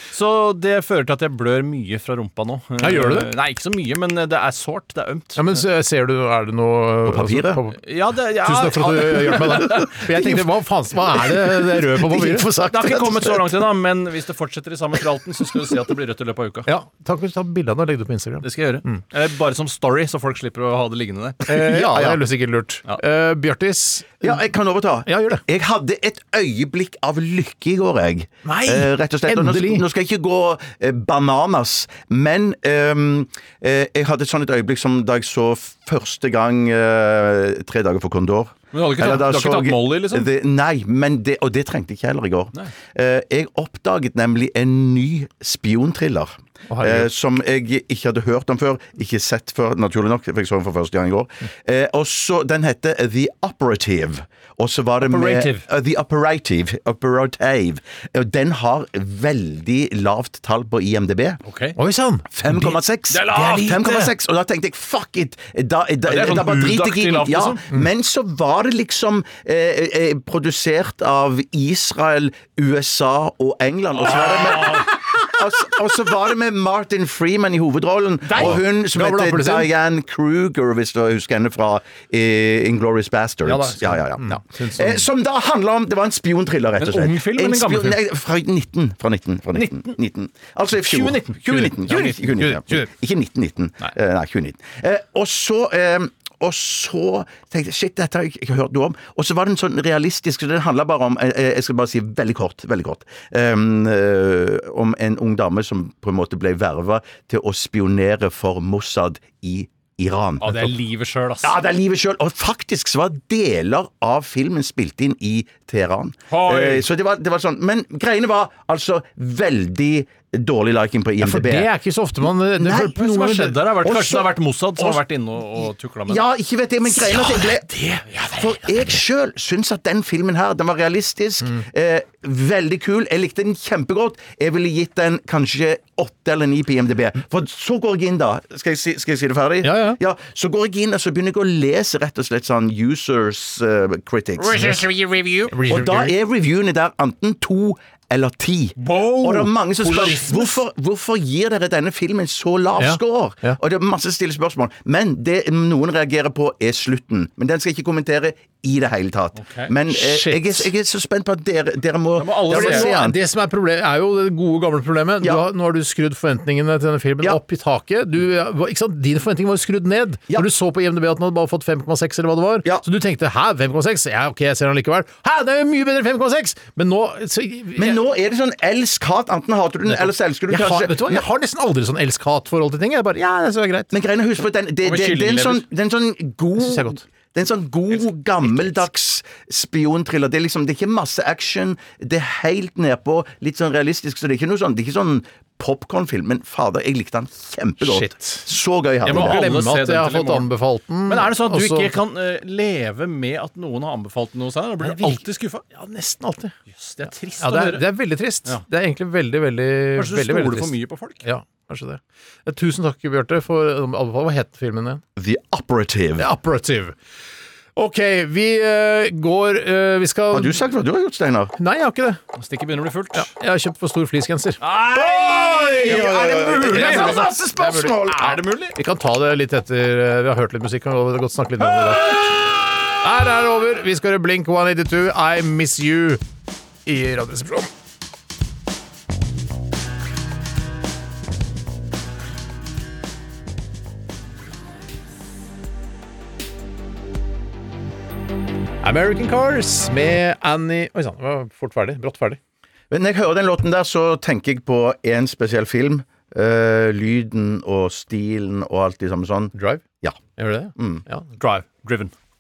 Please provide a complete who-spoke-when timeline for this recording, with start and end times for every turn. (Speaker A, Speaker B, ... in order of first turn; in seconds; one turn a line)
Speaker A: 0.1-5.6
Speaker B: 2.8-3.3
Speaker B: 5.3-7.8
Speaker C: 7.0-7.6
Speaker A: 7.8-10.0
Speaker B: 8.3-12.5
Speaker C: 9.5-10.4
Speaker C: 11.1-13.4
Speaker A: 12.7-16.7
Speaker B: 16.7-19.0
Speaker A: 18.4-21.6
Speaker B: 21.5-24.4
Speaker C: 21.7-22.2
Speaker C: 24.2-61.4
Speaker B: 25.1-25.4
Speaker B: 28.4-29.8
Speaker A: 38.7-40.3
Speaker B: 46.7-47.1
Speaker A: 55.0-55.6
Speaker A: 61.4-61.8
Speaker B: 61.8-62.8
Speaker C: 62.3-110.7
Speaker A: 63.1-64.1
Speaker B: 63.4-63.8
Speaker A: 66.0-67.6
Speaker A: 74.1-74.8
Speaker B: 78.2-79.7
Speaker B: 83.4-85.1
Speaker A: 86.8-88.0
Speaker A: 89.5-89.9
Speaker A: 90.8-92.1
Speaker B: 91.5-92.9
Speaker A: 110.4-111.6
Speaker C: 111.4-121.7
Speaker A: 116.3-116.9
Speaker B: 121.2-124.2
Speaker C: 122.6-122.9
Speaker A: 122.8-126.2
Speaker C: 126.1-127.7
Speaker B: 126.9-129.0
Speaker C: 128.3-144.7
Speaker B: 139.6-140.0
Speaker B: 144.4-146.1
Speaker A: 144.5-145.5
Speaker C: 145.7-163.2
Speaker B: 148.9-149.5
Speaker A: 149.8-150.4
Speaker B: 152.8-153.6
Speaker A: 159.3-160.3
Speaker B: 160.1-160.4
Speaker A: 162.2-162.9
Speaker B: 162.5-178.0
Speaker C: 177.8-181.2
Speaker B: 179.8-183.9
Speaker C: 183.9-199.4
Speaker A: 184.8-185.6
Speaker B: 186.6-187.0
Speaker B: 188.4-188.8
Speaker B: 197.8-198.5
Speaker A: 199.0-200.5
Speaker B: 199.0-202.0
Speaker A: 201.1-205.6
Speaker B: 204.8-210.7
Speaker A: 206.7-207.8
Speaker A: 209.9-211.2
Speaker B: 211.2-215.0
Speaker C: 215.2-216.3
Speaker B: 216.2-217.0
Speaker B: 217.8-220.6
Speaker C: 220.3-221.5
Speaker B: 221.6-222.2
Speaker A: 222.3-223.3
Speaker B: 223.1-224.6
Speaker A: 224.6-227.4
Speaker C: 224.9-228.4
Speaker B: 225.7-236.2
Speaker A: 228.0-228.8
Speaker A: 232.0-232.3
Speaker B: 236.8-237.7
Speaker B: 248.8-252.4
Speaker C: 252.9-260.2
Speaker B: 259.5-259.8
Speaker B: 260.4-261.3
Speaker C: 260.8-261.0
Speaker A: 261.4-262.1